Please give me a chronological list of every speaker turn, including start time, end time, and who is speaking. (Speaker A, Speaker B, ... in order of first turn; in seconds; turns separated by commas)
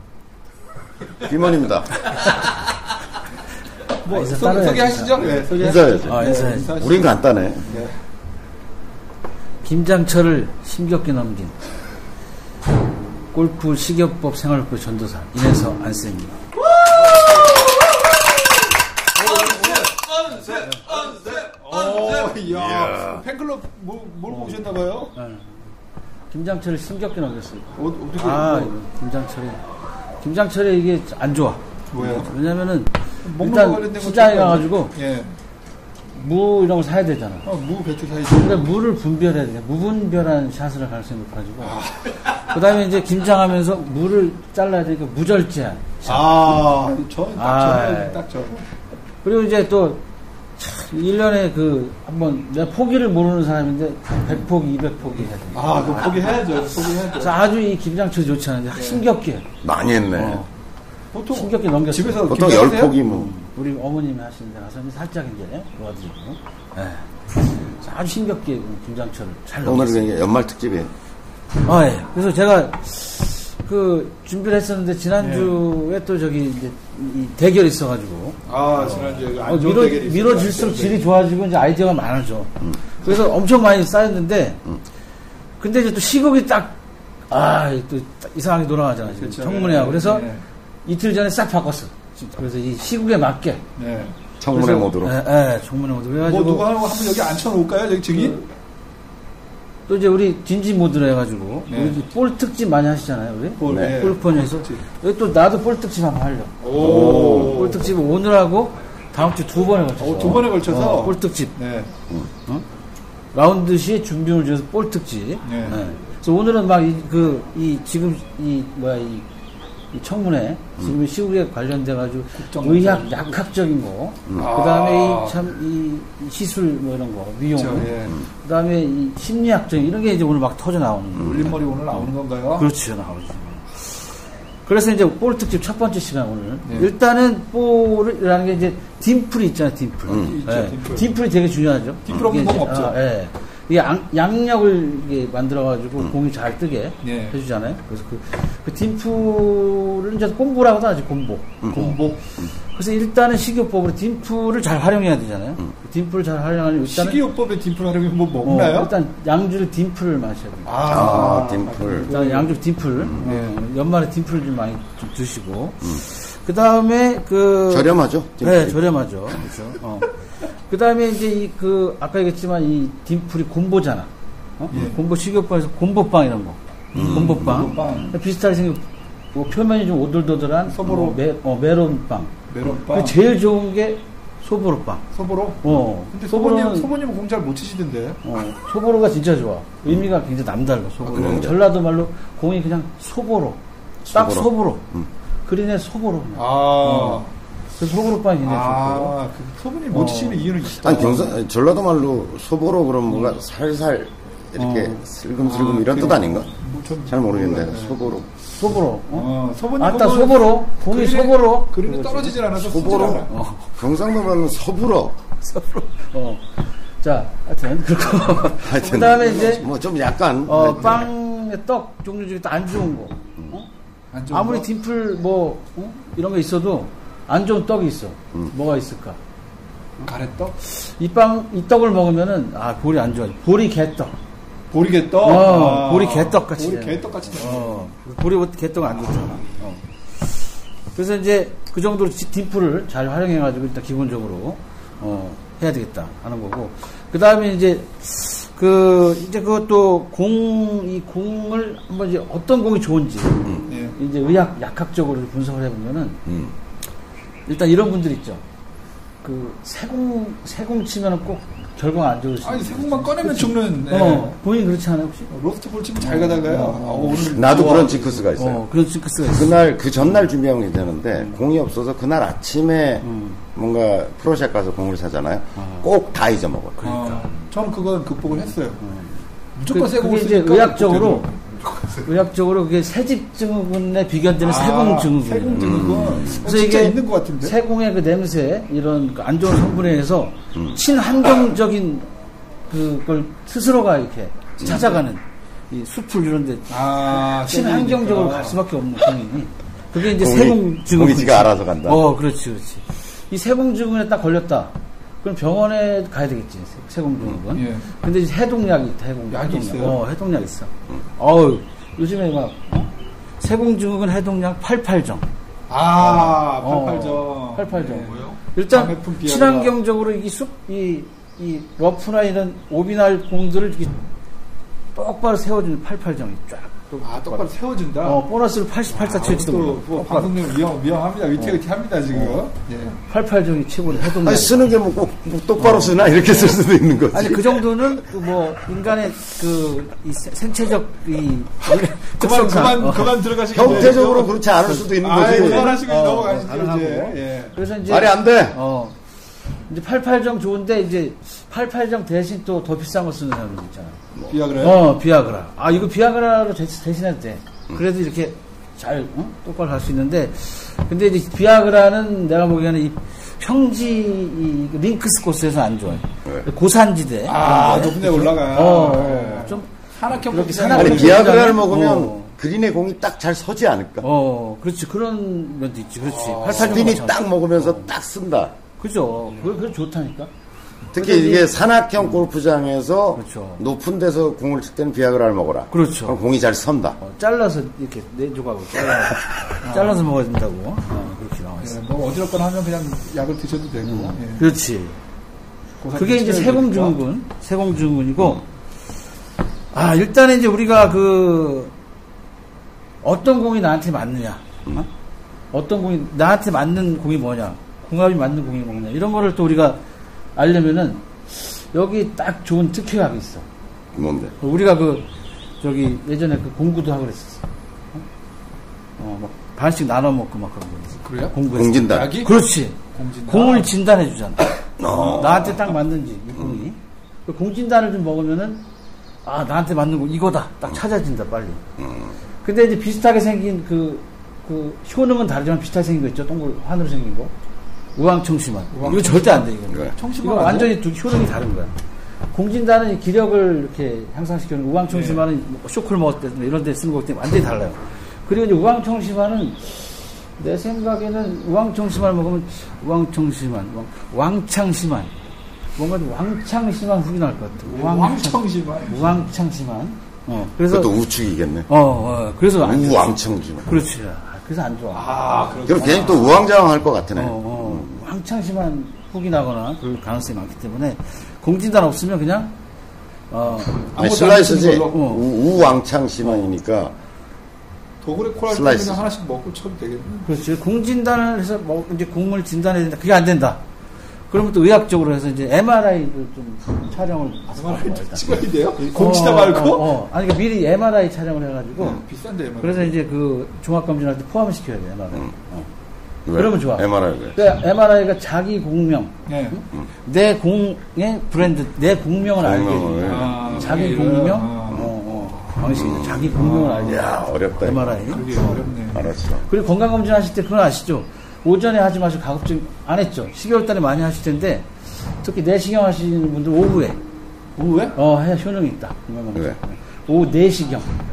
Speaker A: 1.2-2.0, Speaker B: 4.0-7.2, Speaker C: 4.1-6.7, Speaker A: 5.5-7.7, Speaker B: 7.7-8.0, Speaker C: 9.6-11.6, Speaker C: 13.3-16.4, Speaker B: 19.1-25.1, Speaker A: 22.4-23.2, Speaker C: 24.3-24.6, Speaker C: 25.1-25.6, Speaker C: 26.3-29.6, Speaker B: 27.8-28.7, Speaker C: 30.2-34.9, Speaker B: 31.9-32.3, Speaker B: 33.2-35.3, Speaker C: 36.1-37.5, Speaker B: 37.4-38.6, Speaker C: 38.2-46.3, Speaker B: 41.6-42.2, Speaker B: 46.0-48.6, Speaker C: 47.3-48.2, Speaker C: 49.2-50.0, Speaker C: 50.6-59.5, Speaker B: 55.5-57.4, Speaker B: 58.7-59.0, Speaker A: 59.6-60.4, Speaker C: 60.1-60.5, Speaker B: 61.1-63.0, Speaker C: 61.3-62.3, Speaker A: 62.2-63.3, Speaker C: 63.0-70.2, Speaker A: 69.6-70.9, Speaker C: 71.6-84.7, Speaker B: 75.2-75.6, Speaker B: 78.5-81.0, Speaker C: 85.6-86.8, Speaker C: 87.3-90.3, Speaker B: 89.0-90.4, Speaker C: 90.8-93.6, Speaker B: 93.8-94.2, Speaker A: 94.4-95.1, Speaker C: 94.5-96.7, Speaker B: 96.2-98.5, Speaker C: 99.9-111.5, Speaker B: 101.7-102.0, Speaker B: 103.6-104.8, Speaker A: 103.7-104.0, Speaker B: 106.6-107.9, Speaker A: 106.8-107.7, Speaker B: 110.0-111.9, Speaker C: 113.3-119.2, Speaker B: 115.4-115.8, Speaker C: 119.9-134.1, Speaker B: 122.4-123.1, Speaker B: 124.3-125.4, Speaker B: 127.5-128.2, Speaker B: 131.2-132.7, Speaker C: 134.6-157.2, Speaker B: 136.6-136.9, Speaker B: 140.1-141.1, Speaker A: 140.1-140.3, Speaker B: 142.1-143.0, Speaker B: 147.0-147.4, Speaker A: 151.6-152.5, Speaker B: 151.7-152.2, Speaker B: 156.8-158.9, Speaker C: 158.4-161.3, Speaker B: 160.6-162.5, Speaker A: 160.8-162.1, Speaker C: 162.1-182.3, Speaker B: 163.2-163.6, Speaker A: 167.7-168.8, Speaker B: 174.7-174.9, Speaker A: 176.9-177.9, Speaker B: 176.9-178.1, Speaker B: 180.7-181.2, Speaker B: 182.5-183.2, Speaker C: 182.9-185.0, Speaker B: 185.1-188.2, Speaker C: 185.6-186.9, Speaker C: 188.2-193.6, Speaker A: 191.1-191.6, Speaker B: 191.1-191.4, Speaker A: 194.0-195.1, Speaker C: 194.1-194.9, Speaker C: 195.4-197.2, Speaker B: 196.3-197.3, Speaker C: 197.8-199.2, Speaker B: 198.4-201.4, Speaker C: 199.9-200.6, Speaker A: 200.8-206.5, Speaker B: 203.1-203.4, Speaker C: 204.6-205.0, Speaker B: 205.4-208.0, Speaker A: 207.1-208.3, Speaker C: 208.5-212.4, Speaker B: 209.1-213.3, Speaker A: 212.6-215.2, Speaker C: 212.9-213.8, Speaker C: 215.4-219.7, Speaker A: 218.6-221.1, Speaker B: 219.0-219.6, Speaker C: 220.4-223.7, Speaker B: 224.1-224.7, Speaker C: 224.3-229.2, Speaker B: 230.0-230.5, Speaker C: 230.6-234.1, Speaker B: 234.7-237.9, Speaker C: 235.2-256.2, Speaker B: 253.7-254.0, Speaker A: 256.3-256.5, Speaker C: 257.4-258.4, Speaker C: 259.2-265.3, Speaker B: 262.4-264.4, Speaker B: 265.3-268.2, Speaker C: 266.0-267.4, Speaker A: 267.2-268.6, Speaker C: 268.4-269.6, Speaker A: 269.3-276.9, Speaker C: 273.0-273.4, Speaker C: 275.6-275.9, Speaker C: 276.8-277.3, Speaker B: 276.8-278.8, Speaker C: 278.8-279.2, Speaker B: 279.6-282.0, Speaker C: 279.7-281.3, Speaker C: 281.9-292.1, Speaker B: 284.4-287.6, Speaker A: 285.6-286.3, Speaker C: 292.7-315.2, Speaker B: 296.7-298.6, Speaker A: 300.0-302.0, Speaker B: 307.5-307.9, Speaker B: 309.3-310.0, Speaker B: 315.7-319.8, Speaker C: 316.0-324.0, Speaker C: 324.9-327.5, Speaker B: 327.0-328.2, Speaker C: 328.0-330.4, Speaker B: 328.9-333.0, Speaker C: 333.1-334.7, Speaker A: 334.0-337.9, Speaker C: 335.6-336.6, Speaker C: 337.1-343.9, Speaker B: 342.0-344.3, Speaker A: 343.5-345.8, Speaker C: 344.6-349.0, Speaker B: 345.0-347.6, Speaker A: 347.9-348.6, Speaker C: 349.5-354.0, Speaker B: 354.3-354.8, Speaker C: 354.5-369.7, Speaker B: 367.2-371.5, Speaker C: 370.3-372.3, Speaker A: 370.7-374.1, Speaker C: 374.0-377.9, Speaker B: 376.0-377.0, Speaker A: 376.4-378.5, Speaker C: 378.8-380.3, Speaker A: 380.9-387.0, Speaker C: 380.9-381.5, Speaker C: 383.1-383.6, Speaker C: 385.7-386.2, Speaker C: 387.0-391.8, Speaker B: 389.6-390.0, Speaker B: 391.6-394.5, Speaker C: 393.8-395.0, Speaker B: 395.8-397.0, Speaker C: 395.9-398.4, Speaker C: 399.7-401.7, Speaker C: 403.0-404.9, Speaker C: 405.5-409.8, Speaker C: 410.4-413.4, Speaker A: 413.9-414.3, Speaker C: 414.4-415.1, Speaker C: 415.6-418.0, Speaker C: 419.0-428.6, Speaker B: 421.0-422.4, Speaker A: 421.4-422.2, Speaker B: 422.9-423.7, Speaker A: 424.8-425.7, Speaker C: 429.2-431.6, Speaker A: 431.8-432.1, Speaker C: 432.4-437.3, Speaker C: 437.9-441.7, Speaker B: 438.7-440.8, Speaker C: 442.3-455.1, Speaker B: 444.9-445.2, Speaker C: 455.8-461.0, Speaker B: 457.6-459.0, Speaker A: 460.7-461.7, Speaker C: 461.7-465.2, Speaker A: 462.6-463.7, Speaker B: 464.9-466.4, Speaker A: 465.6-468.0, Speaker C: 465.7-466.4, Speaker C: 467.1-472.5, Speaker C: 473.3-473.8, Speaker B: 473.9-475.1, Speaker A: 474.0-476.9, Speaker C: 474.9-475.2, Speaker B: 478.0-480.3, Speaker A: 478.5-479.0, Speaker C: 480.2-483.6, Speaker C: 484.3-492.0, Speaker B: 487.5-489.9, Speaker B: 491.8-493.0, Speaker C: 492.6-495.7, Speaker A: 496.2-497.4, Speaker C: 496.3-508.6, Speaker B: 499.2-499.6, Speaker A: 502.4-503.8, Speaker B: 503.0-504.9, Speaker A: 505.6-508.2, Speaker B: 506.3-507.0, Speaker B: 508.1-509.0, Speaker A: 508.9-509.4, Speaker C: 509.4-517.0, Speaker B: 517.6-518.0, Speaker C: 517.9-520.9